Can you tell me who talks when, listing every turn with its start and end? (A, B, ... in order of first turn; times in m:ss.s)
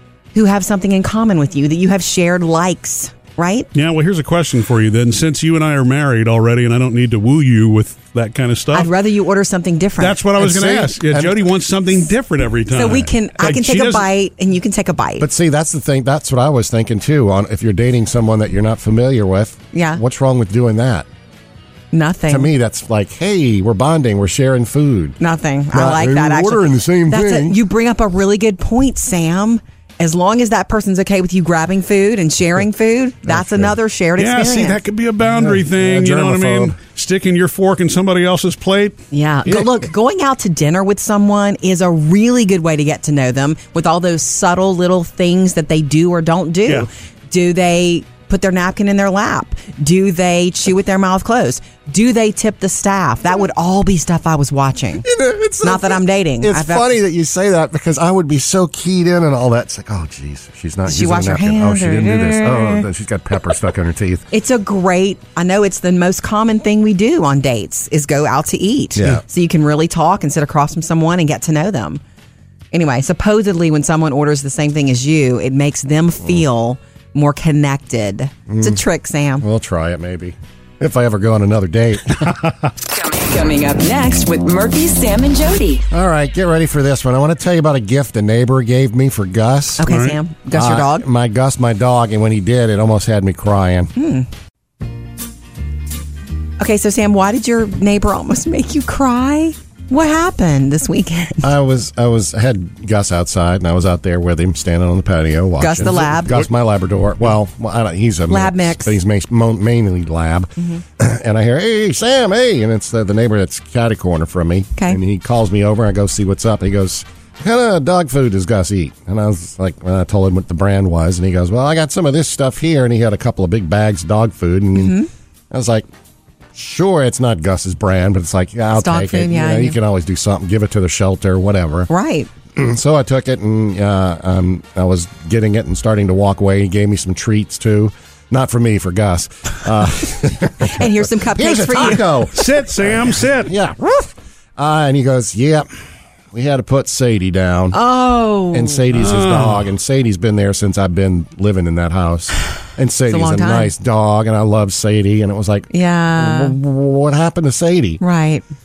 0:00.3-0:03.7 A
0:03.7-0:08.9 B
0:08.7-0:10.2 A
0:10.0-0:14.1 B
0:10.4-0:11.4 C
0:12.7-0:15.3 A
0:15.2-0:21.1 C
0:19.7-0:20.0 A
0:21.9-0:22.5 A
0:22.3-0:25.2 C
0:25.2-0:34.8 A
0:25.7-0:27.6 C
0:33.3-0:33.7 C
0:34.2-0:39.0 B
0:35.2-0:36.7 C
0:39.1-0:55.1 A
0:55.0-1:04.2 C
0:55.6-0:56.9 A
1:00.9-1:02.9 A
1:04.3-1:12.0 A
1:12.7-1:19.4 A
1:18.5-1:18.8 C
1:19.4-1:22.5 C
1:22.8-1:25.8 D
1:25.9-1:29.9 C
1:29.8-1:31.0 A
1:29.9-1:30.2 B
1:30.5-1:33.9 C
1:34.0-1:34.3 A
1:36.6-1:41.5 A
1:41.4-2:05.0 C
1:45.6-1:46.4 A
1:45.9-1:46.5 B
1:48.3-1:49.0 A
1:50.6-1:50.8 A
2:04.7-2:05.1 A
2:05.5-2:05.8 C
2:06.5-2:11.9 C
2:08.7-2:09.8 A
2:11.9-2:12.3 A
2:12.5-2:25.7 C
2:20.6-2:22.1 A
2:22.3-2:23.5 B
2:26.3-2:27.8 C
2:27.7-2:28.8 A
2:28.5-2:38.0 C
2:28.9-2:29.6 B
2:33.1-2:33.7 A
2:35.7-2:36.6 A
2:38.0-2:38.4 A